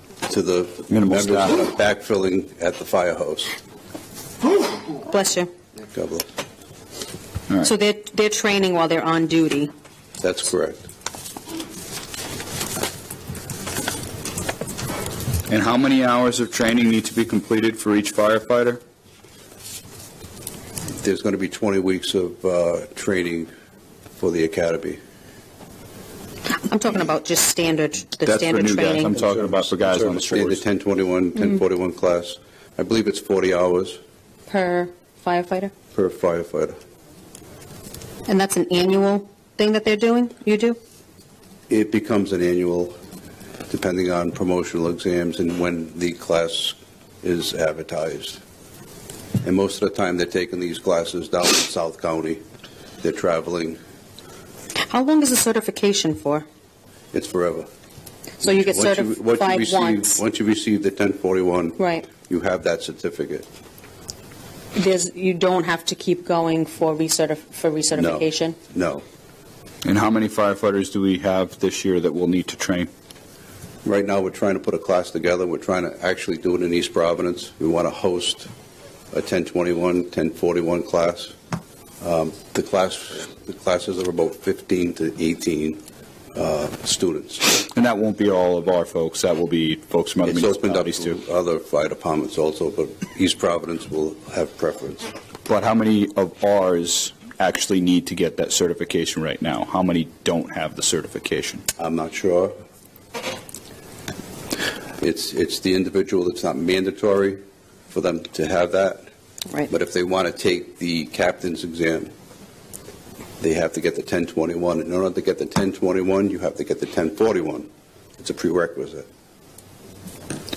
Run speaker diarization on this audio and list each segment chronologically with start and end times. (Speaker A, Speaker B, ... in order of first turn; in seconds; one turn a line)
Speaker A: 0.3-3.5
Speaker B: 0.9-1.6
Speaker C: 5.1-5.5
Speaker A: 5.9-6.3
Speaker C: 7.6-9.7
Speaker A: 10.2-10.8
Speaker B: 15.5-18.8
Speaker A: 21.0-23.5
Speaker A: 24.2-25.0
Speaker C: 26.5-29.2
Speaker B: 28.2-30.6
Speaker A: 29.3-34.0
Speaker C: 34.5-35.7
Speaker A: 35.9-36.8
Speaker C: 38.3-40.8
Speaker A: 41.7-42.9
Speaker A: 43.7-48.4
Speaker A: 49.4-52.4
Speaker A: 53.0-53.8
Speaker C: 54.9-56.5
Speaker A: 57.1-57.7
Speaker C: 58.4-60.2
Speaker A: 58.4-63.5
Speaker C: 61.8-62.1
Speaker C: 64.8-68.6
Speaker A: 67.9-69.0
Speaker B: 69.8-72.9
Speaker A: 73.8-78.5
Speaker A: 79.1-81.3
Speaker A: 82.0-85.8
Speaker A: 86.3-87.6
Speaker B: 87.6-91.2
Speaker A: 90.3-95.1
Speaker B: 95.5-101.6
Speaker A: 101.8-102.5
Speaker A: 105.0-107.4
Speaker A: 107.9-109.0
Speaker A: 109.7-112.1
Speaker A: 113.4-117.7
Speaker A: 118.2-119.1